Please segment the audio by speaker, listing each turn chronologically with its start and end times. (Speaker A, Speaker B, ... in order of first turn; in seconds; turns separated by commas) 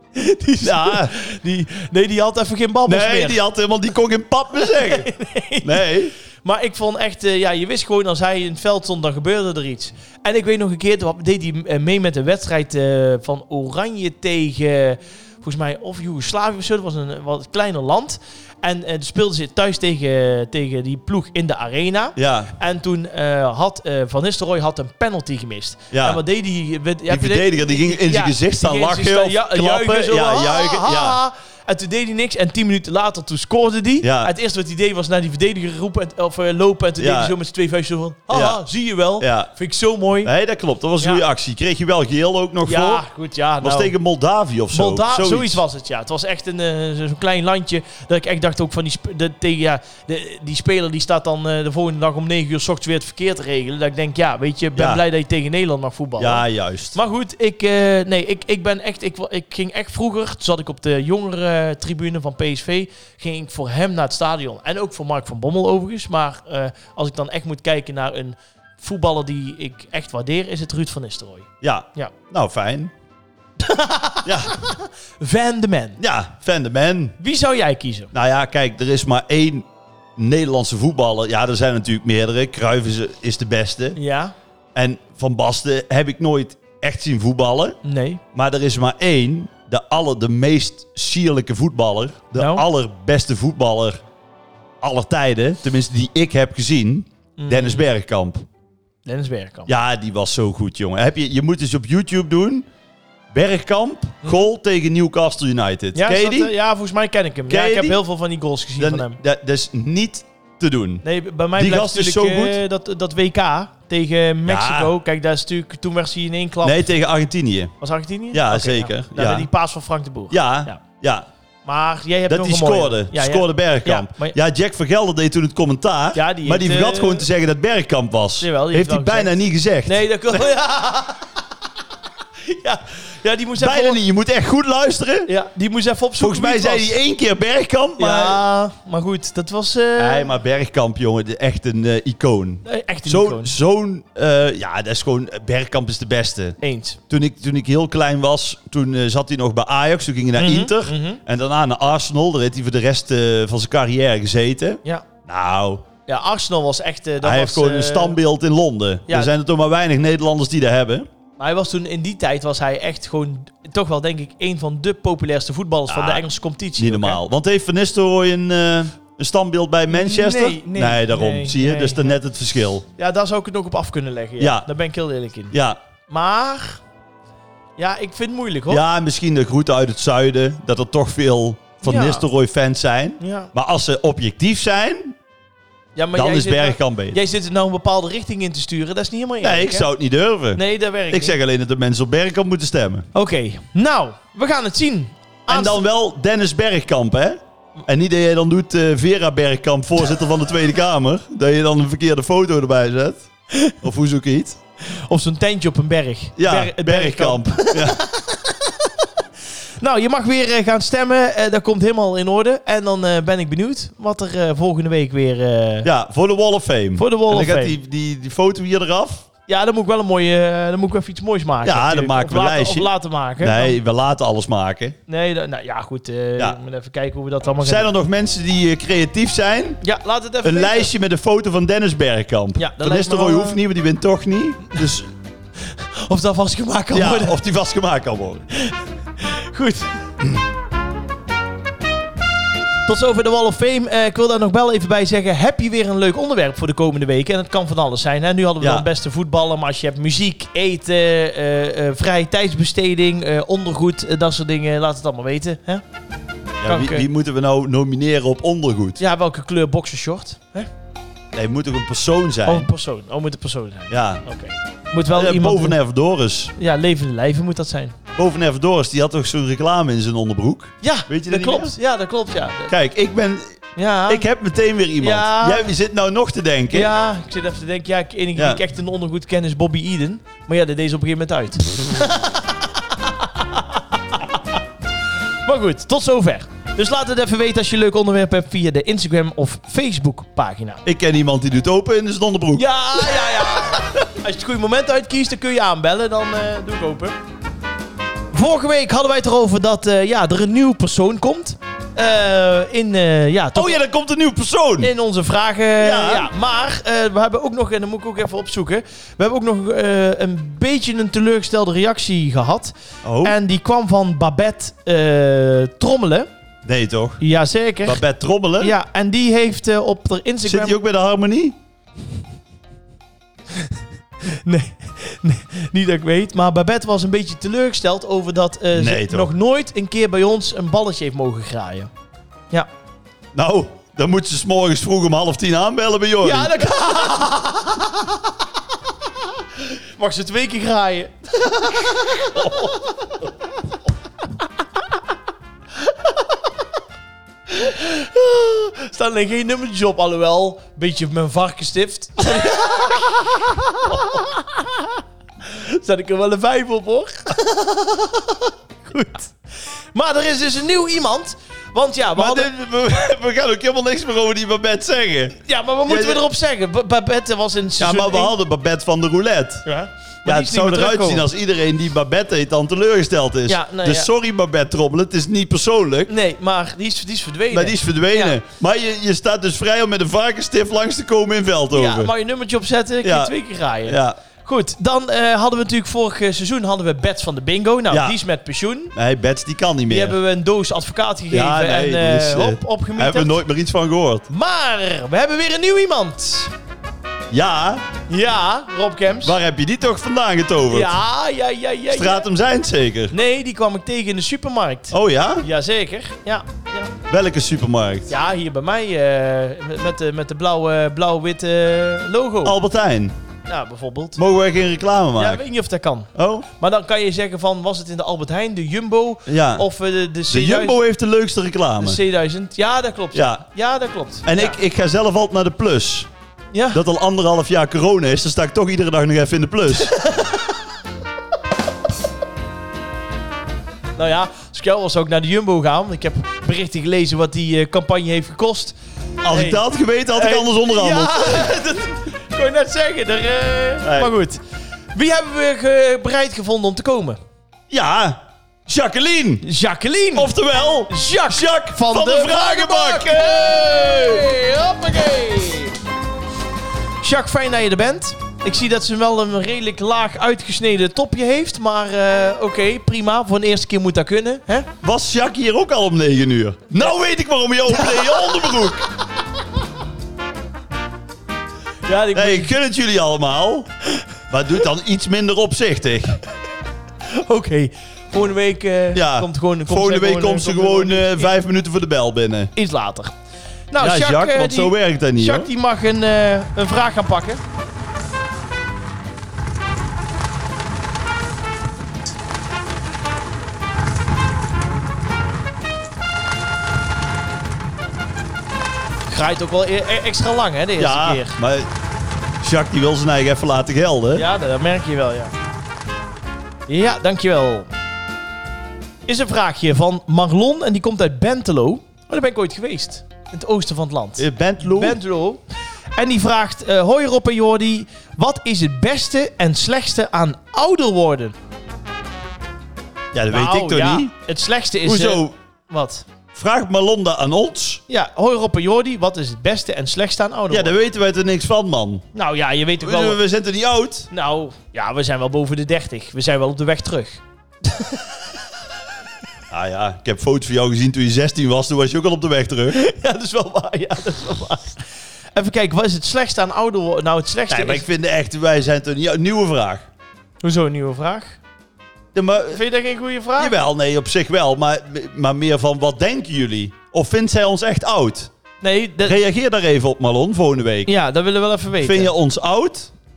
Speaker A: 0.1-3.4, Speaker B: 0.6-1.1, Speaker B: 2.9-5.1, Speaker A: 4.6-5.9, Speaker B: 5.6-6.1, Speaker A: 6.4-40.3, Speaker B: 22.2-22.5, Speaker B: 25.9-26.2, Speaker B: 27.1-31.2, Speaker B: 34.0-34.3, Speaker B: 37.0-37.3, Speaker B: 38.3-38.6, Speaker B: 39.2-39.5, Speaker B: 40.2-43.0, Speaker A: 42.6-43.9, Speaker B: 43.6-45.6, Speaker A: 44.7-72.1, Speaker B: 54.7-55.0, Speaker B: 56.2-57.0, Speaker B: 71.6-72.9, Speaker A: 73.6-76.0, Speaker B: 74.2-74.6, Speaker B: 76.0-77.2, Speaker A: 77.2-78.1, Speaker B: 78.1-84.0, Speaker A: 84.0-84.3, Speaker B: 84.7-87.8, Speaker A: 87.8-88.2, Speaker B: 88.3-94.0, Speaker A: 92.3-92.7, Speaker B: 94.8-98.4, Speaker A: 97.4-97.9, Speaker A: 99.0-99.7, Speaker B: 99.7-102.7, Speaker B: 103.3-106.5, Speaker A: 105.9-109.2, Speaker B: 107.5-108.0, Speaker B: 108.8-111.0, Speaker A: 111.0-116.9, Speaker B: 111.5-112.6, Speaker B: 114.5-114.9, Speaker B: 116.6-117.7, Speaker A: 117.8-120.8, Speaker B: 118.3-119.5, Speaker B: 120.3-121.3, Speaker A: 121.6-124.3, Speaker B: 122.3-130.4, Speaker A: 126.1-127.3, Speaker A: 128.4-131.3, Speaker A: 132.4-134.0, Speaker B: 133.6-135.3, Speaker A: 135.3-137.0, Speaker B: 136.2-138.4, Speaker A: 138.0-140.3, Speaker B: 140.0-146.6, Speaker A: 142.6-143.5, Speaker A: 146.6-147.0, Speaker B: 147.1-155.8, Speaker A: 150.3-151.2, Speaker A: 156.1-158.2, Speaker B: 157.2-161.1, Speaker A: 161.4-167.2, Speaker B: 165.9-166.2, Speaker B: 166.8-172.8, Speaker A: 169.9-172.2, Speaker A: 173.0-175.5, Speaker B: 174.4-174.7, Speaker B: 175.5-175.8, Speaker A: 176.1-176.8, Speaker A: 177.8-178.8, Speaker B: 178.7-185.2, Speaker A: 181.8-182.2, Speaker A: 183.2-183.5, Speaker A: 185.9-189.9, Speaker B: 186.1-187.2, Speaker B: 189.4-193.1, Speaker A: 190.5-191.4, Speaker A: 193.1-195.8, Speaker B: 195.5-204.6, Speaker A: 204.9-208.4, Speaker B: 206.4-208.0, Speaker A: 209.8-215.9, Speaker B: 215.8-219.2, Speaker A: 216.9-217.8, Speaker A: 219.5-223.8, Speaker B: 221.6-225.0, Speaker A: 225.1-227.9, Speaker B: 227.6-229.8, Speaker A: 229.8-230.9, Speaker B: 230.4-235.1, Speaker A: 232.6-233.6, Speaker A: 235.6-237.4, Speaker B: 236.9-238.4, Speaker A: 238.5-239.9, Speaker A: 242.9-255.8, Speaker B: 248.6-248.9, Speaker B: 256.6-259.0, Speaker A: 256.6-257.1, Speaker A: 259.0-260.7, Speaker B: 261.3-262.7, Speaker A: 262.4-265.8, Speaker B: 263.9-264.2, Speaker B: 265.1-266.5, Speaker A: 266.6-268.0, Speaker B: 268.1-271.8, Speaker A: 270.8-272.7, Speaker B: 272.7-276.9, Speaker A: 273.8-274.2, Speaker A: 275.0-275.7, Speaker A: 276.7-284.2, Speaker B: 278.4-278.6, Speaker A: 285.4-290.8, Speaker B: 290.8-293.9, Speaker A: 292.5-297.1, Speaker A: 298.3-303.8, Speaker B: 303.5-304.9, Speaker A: 304.8-316.3, Speaker B: 305.8-306.3, Speaker B: 313.0-313.4, Speaker B: 316.6-317.2, Speaker A: 317.2-318.0, Speaker B: 317.8-318.8, Speaker A: 318.6-320.8, Speaker B: 320.4-321.6, Speaker A: 323.6-331.9, Speaker B: 328.7-329.3, Speaker B: 333.3-336.7, Speaker A: 336.2-338.1, Speaker A: 339.6-342.9, Speaker B: 342.3-342.7, Speaker A: 347.5-359.3, Speaker A: 359.9-362.5, Speaker B: 362.1-366.2, Speaker A: 365.4-368.3, Speaker B: 367.8-369.6, Speaker A: 369.6-371.2, Speaker B: 370.2-376.1, Speaker A: 373.5-374.1, Speaker A: 376.1-378.4, Speaker B: 377.5-382.1, Speaker A: 381.7-388.9, Speaker B: 383.0-384.2, Speaker B: 387.9-388.2, Speaker B: 388.9-390.1, Speaker A: 389.9-393.4, Speaker B: 391.3-394.3, Speaker A: 394.3-396.5, Speaker B: 397.3-397.8, Speaker A: 398.1-399.4, Speaker B: 399.2-400.9, Speaker A: 400.7-402.3, Speaker B: 401.9-403.1, Speaker A: 403.1-406.9, Speaker B: 404.9-405.4, Speaker B: 407.1-408.1, Speaker A: 408.1-412.6, Speaker B: 412.4-413.1, Speaker A: 413.5-414.2, Speaker B: 414.2-415.4, Speaker A: 415.1-420.8, Speaker B: 416.1-416.4, Speaker B: 419.3-419.6, Speaker B: 420.3-422.0, Speaker A: 421.8-424.6, Speaker B: 423.1-423.4, Speaker B: 424.2-426.1, Speaker A: 426.5-426.8, Speaker B: 426.7-429.9, Speaker A: 429.9-430.4, Speaker A: 434.0-438.8, Speaker B: 439.2-441.6, Speaker A: 439.3-444.4, Speaker B: 443.8-444.1, Speaker A: 444.9-447.2, Speaker B: 447.7-449.4, Speaker A: 449.4-450.3, Speaker B: 450.1-454.2, Speaker A: 450.9-455.8, Speaker A: 457.0-464.7, Speaker B: 464.8-468.9, Speaker A: 467.7-468.4, Speaker A: 471.9-472.6, Speaker B: 472.1-473.7, Speaker B: 474.3-476.2, Speaker A: 477.1-481.3, Speaker B: 478.9-482.5, Speaker A: 482.5-483.1, Speaker A: 483.7-487.4, Speaker B: 483.8-485.5, Speaker A: 499.1-501.4, Speaker B: 500.8-501.7, Speaker B: 502.4-504.3, Speaker A: 504.1-505.3, Speaker A: 506.7-507.7, Speaker A: 509.1-515.4, Speaker B: 514.2-515.0, Speaker A: 516.0-521.3, Speaker B: 523.1-524.1, Speaker A: 523.3-526.0, Speaker B: 524.8-525.4, Speaker B: 526.3-527.8, Speaker A: 527.9-530.8, Speaker B: 530.5-532.0, Speaker A: 532.1-533.2, Speaker B: 532.8-534.1, Speaker A: 534.1-538.0, Speaker B: 539.5-542.8, Speaker A: 542.7-547.9, Speaker B: 547.5-549.9, Speaker A: 550.4-551.4, Speaker B: 552.1-552.6, Speaker A: 552.4-553.5, Speaker B: 553.4-558.3, Speaker A: 558.6-559.2, Speaker B: 559.0-560.9, Speaker A: 560.9-562.1, Speaker B: 561.8-562.9